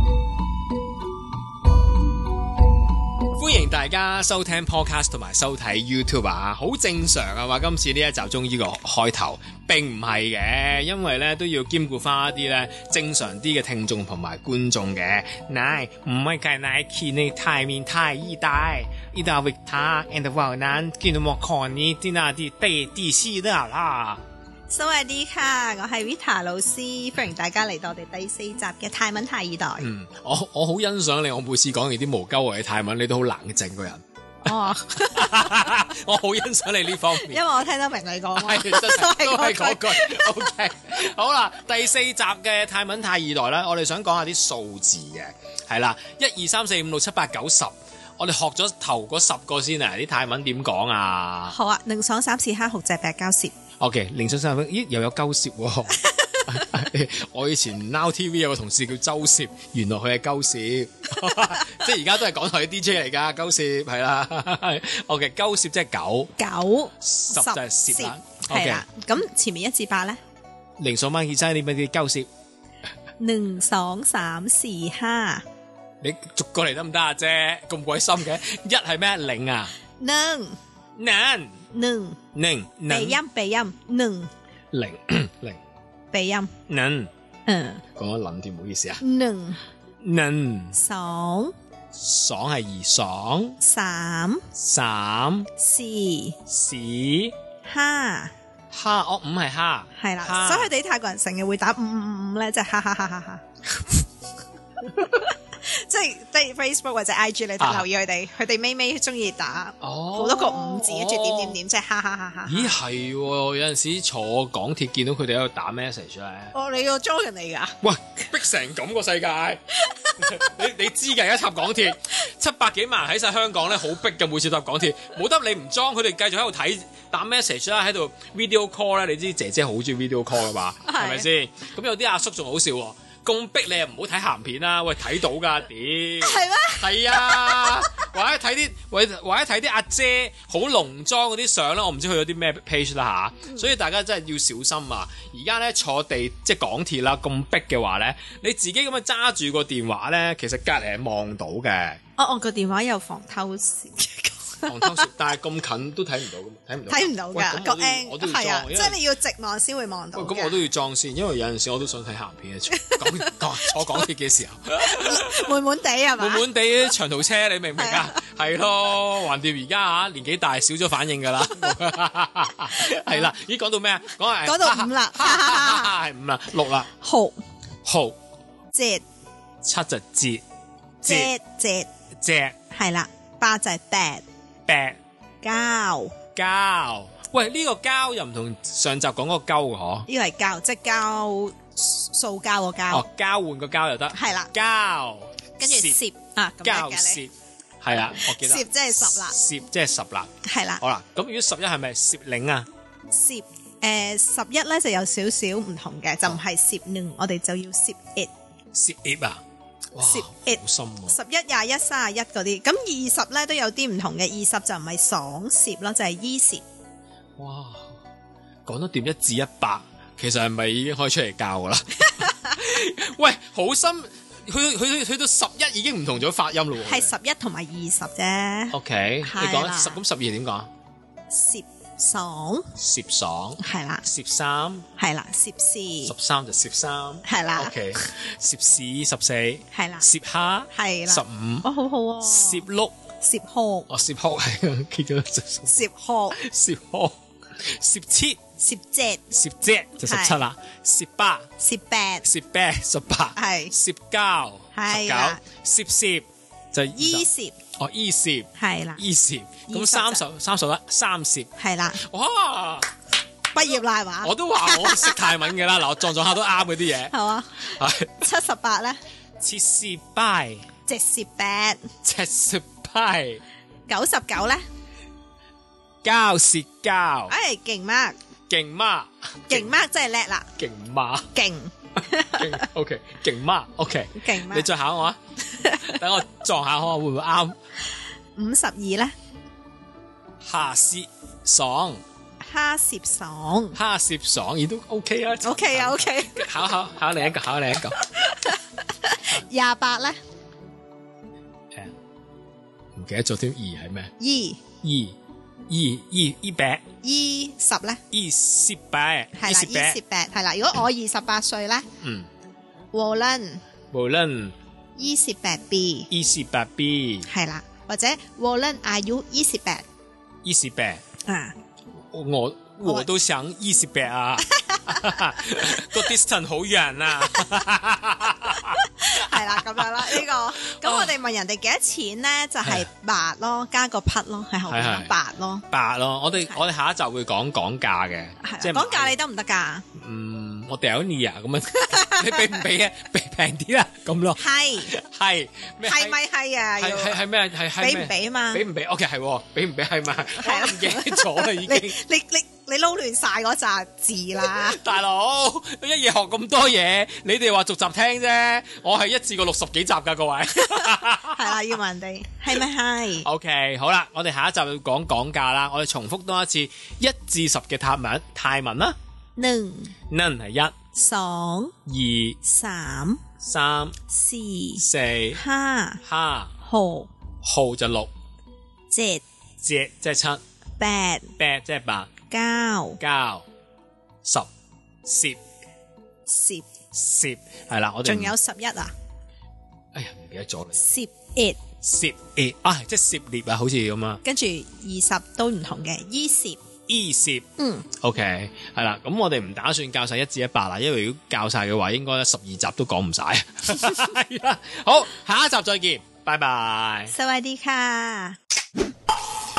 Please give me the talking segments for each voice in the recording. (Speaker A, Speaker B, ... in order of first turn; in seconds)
Speaker A: 3.4-24.2, 29.8-34.5, 35.1-37.4, 38.4-51.5, 53.8-66.3, 67.0-68.8, 70.8-72.3, 76.0-79.7, 81.0-81.5, 82.3-83.2, 84.7-85.6, 86.7-87.1, 88.0-89.0, 90.0-90.8, 92.0-93.6, 94.6-95.5, 96.5-97.3, 98.7-100.7, 107.6-107.9, 109.8-111.6, 112.5-116.5, 117.8-119.6, 120.2-152.0, 154.7-159.0, 160.2-165.5, 166.2-176.9, 177.8-178.2, 179.6-180.4, 181.1-181.3, 182.2-182.6, 184.7-185.0, 186.4-190.1, 192.9-196.0, 196.6-200.3, 200.8-202.7, 208.7-209.4, 209.9-211.2, 217.4-218.0, 218.7-227.1, 228.7-230.7, 232.8-234.8, 236.1-241.7, 242.2-242.9, 243.9-245.8, 246.3-248.4, 249.3-251.5, 252.2-261.5, 262.0-262.9, 264.2-268.2, 269.4-270.6, 272.0-273.4, 276.0-277.3, 278.5-279.7, 280.6-281.3, 282.2-285.2, 285.8-287.6, 290.4-292.0, 293.8-298.2, 303.0-304.1, 304.8-305.1, 305.7-306.8, 308.1-310.0, 312.0-312.3, 313.9-314.5, 316.1-317.3, 320.4-321.0, 322.1-330.2, 330.8-331.1, 334.7-335.1, 335.7-339.1, 340.0-346.2, 346.8-352.0, 354.4-361.8, 363.2-369.0, 370.1-370.7, 371.9-372.4, 373.4-373.9, 374.8-375.4, 376.0-376.5, 377.4-378.1, 379.6-380.4, 381.4-382.1, 383.0-383.4, 384.2-384.5, 385.1-385.4, 386.9-388.4, 389.9-390.8, 391.8-394.2, 396.9-397.5, 398.0-407.1
Speaker B: 24.7-29.9, 34.5-35.8, 37.1-40.5, 51.5-53.5, 56.1-56.6, 66.4-70.2, 73.2-75.5, 80.0-80.6, 81.7-82.2, 82.9-84.3, 86.1-86.5, 87.5-87.8, 89.0-89.6, 90.7-91.5, 93.6-94.5, 95.6-96.4, 97.7-98.3, 99.9-104.0, 105.1-112.8, 116.5-117.8, 119.8-120.3, 130.8-131.3, 136.2-137.8, 152.2-155.0, 156.9-160.6, 162.8-164.1, 164.8-166.4, 167.8-168.2, 174.4-175.9, 176.9-177.4, 178.7-179.1, 181.0-181.9, 182.7-184.2, 185.4-186.2, 190.1-193.1, 194.1-194.5, 195.6-197.2, 198.3-199.4, 200.4-200.8, 203.1-208.3, 210.0-216.6, 226.8-230.0, 231.3-232.7, 233.6-234.1, 235.0-236.1, 237.2-238.1, 239.7-240.1, 240.7-242.7, 243.2-243.9, 245.7-246.4, 248.6-249.3, 250.0-250.4, 251.6-252.2, 253.3-253.7, 254.7-255.4, 256.9-257.6, 258.6-259.0, 259.7-260.2, 261.6-262.0, 263.5-265.3, 267.1-269.0, 270.9-271.9, 273.9-274.6, 277.3-278.2, 279.5-280.5, 281.3-282.6, 284.1-284.7, 285.5-286.0, 288.4-289.1, 292.4-293.8, 295.4-296.5, 298.1-300.2, 304.2-304.6, 307.0-308.0, 309.4-311.9, 312.9-313.6, 315.0-316.1, 317.3-319.9, 321.3-321.6, 324.5-325.2, 328.8-335.6, 338.4-339.8, 341.9-342.6, 344.4-344.9, 345.8-347.2, 347.8-348.6, 350.4-354.8, 360.6-363.3, 369.4-369.9, 370.9-371.7, 372.4-373.2, 374.1-374.8, 375.4-376.0, 376.6-377.1, 378.9-379.2, 380.8-381.3, 382.3-383.0, 386.3-386.7, 388.0-388.9, 390.8-391.6, 394.2-396.6, 397.6-397.9, 407.1-408.4